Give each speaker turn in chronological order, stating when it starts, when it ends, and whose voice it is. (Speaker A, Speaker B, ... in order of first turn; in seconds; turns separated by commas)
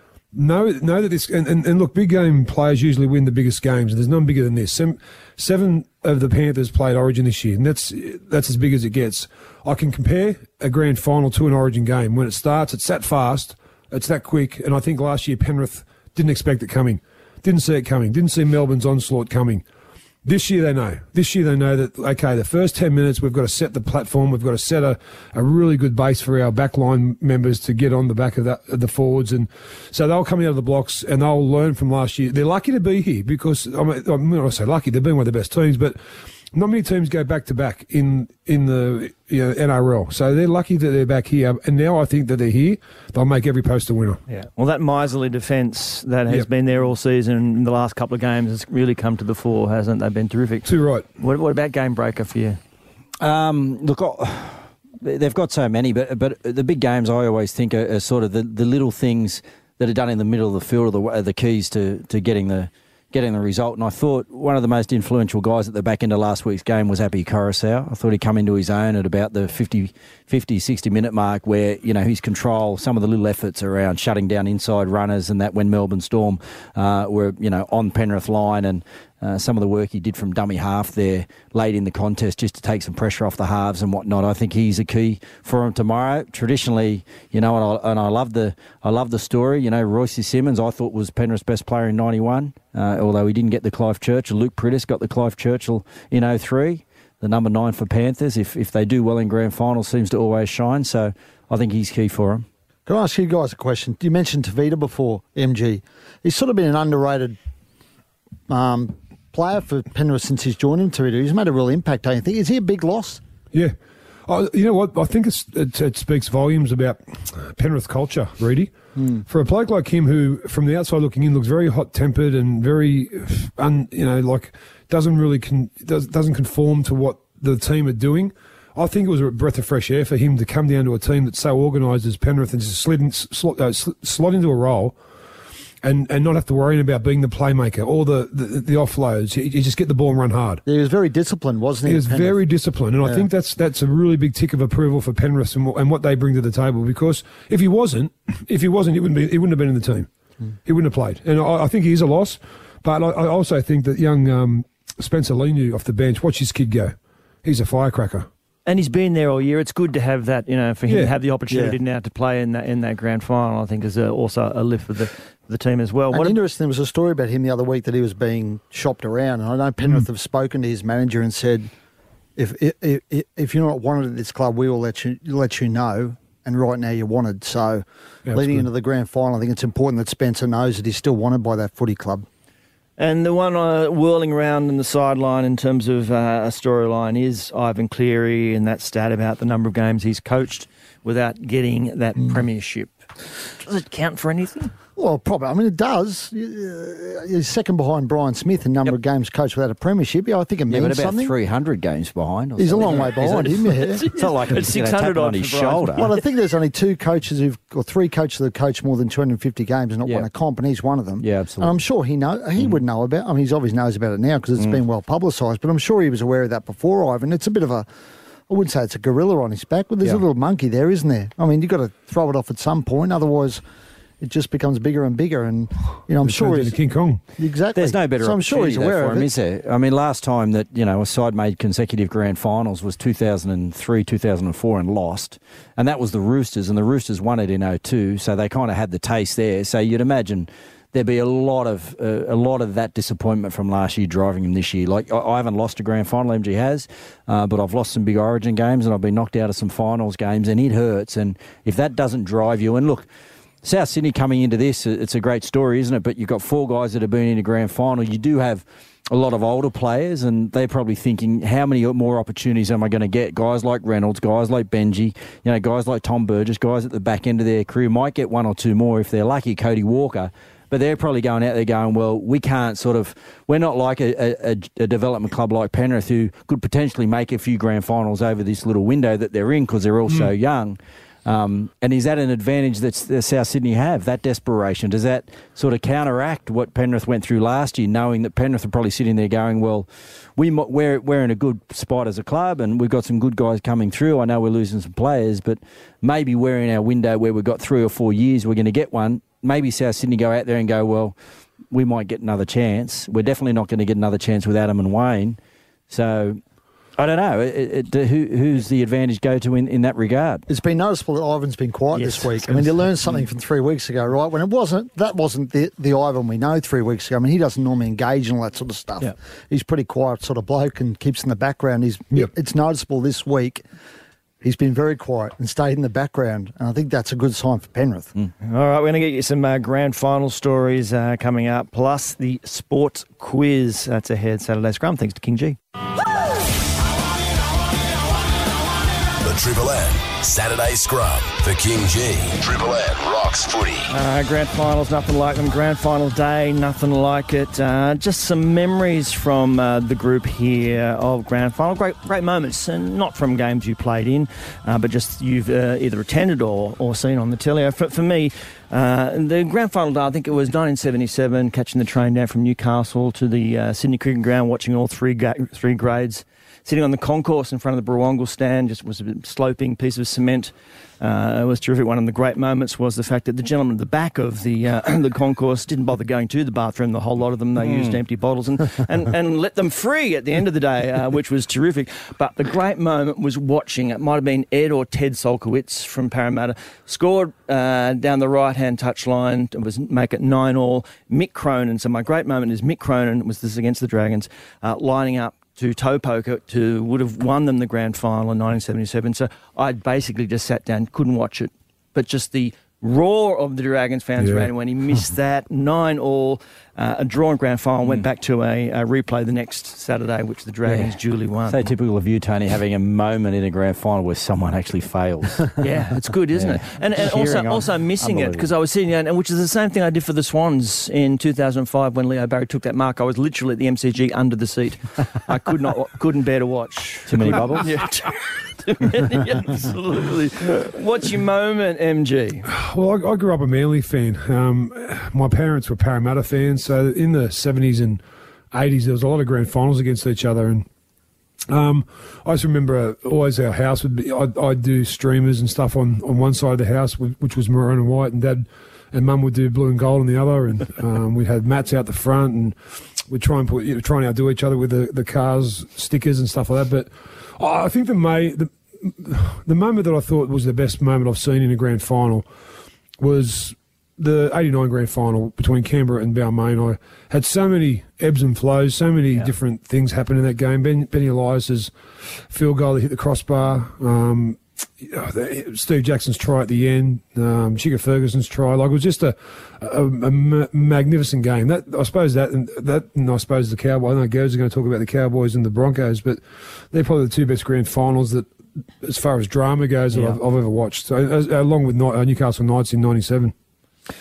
Speaker A: 0.3-19.6, Speaker A: 20.2-36.0, Speaker A: 36.5-44.2, Speaker B: 44.3-50.7, Speaker A: 50.6-51.1, Speaker B: 51.2-52.6, Speaker C: 53.2-102.5, Speaker D: 102.9-107.4, Speaker D: 108.5-113.2, Speaker A: 114.3-118.7, Speaker D: 119.0-119.2, Speaker A: 119.3-135.0, Speaker A: 135.8-140.6, Speaker D: 140.7-142.4, Speaker A: 141.8-150.1, Speaker A: 150.7-158.3, Speaker B: 158.7-166.4, Speaker A: 160.9-161.1, Speaker D: 166.1-171.7, Speaker D: 172.4-182.3, Speaker A: 178.3-178.7, Speaker B: 183.0-192.9, Speaker B: 193.5-194.7, Speaker D: 195.0-201.4, Speaker C: 200.7-206.1, Speaker D: 202.6-204.1, Speaker B: 202.8-206.2, Speaker D: 206.0-217.9, Speaker C: 211.2-211.8, Speaker D: 218.5-223.6, Speaker D: 224.2-226.8, Speaker A: 226.2-227.2, Speaker D: 227.4-229.3, Speaker C: 227.8-253.1, Speaker C: 253.6-301.2, Speaker C: 301.7-305.4, Speaker C: 305.9-306.4, Speaker C: 307.0-310.4, Speaker D: 310.5-323.6, Speaker B: 311.9-312.9, Speaker D: 324.4-328.1, Speaker B: 328.4-335.6, Speaker E: 339.2-343.9, Speaker B: 343.9-411.6, Speaker C: 377.6-378.0, Speaker A: 404.2-404.5, Speaker C: 410.6-415.6, Speaker B: 415.6-432.5, Speaker C: 416.3-418.5, Speaker C: 427.1-427.7, Speaker A: 432.5-440.7, Speaker A: 441.5-462.3, Speaker A: 463.0-471.7, Speaker A: 472.3-488.3, Speaker A: 488.8-493.3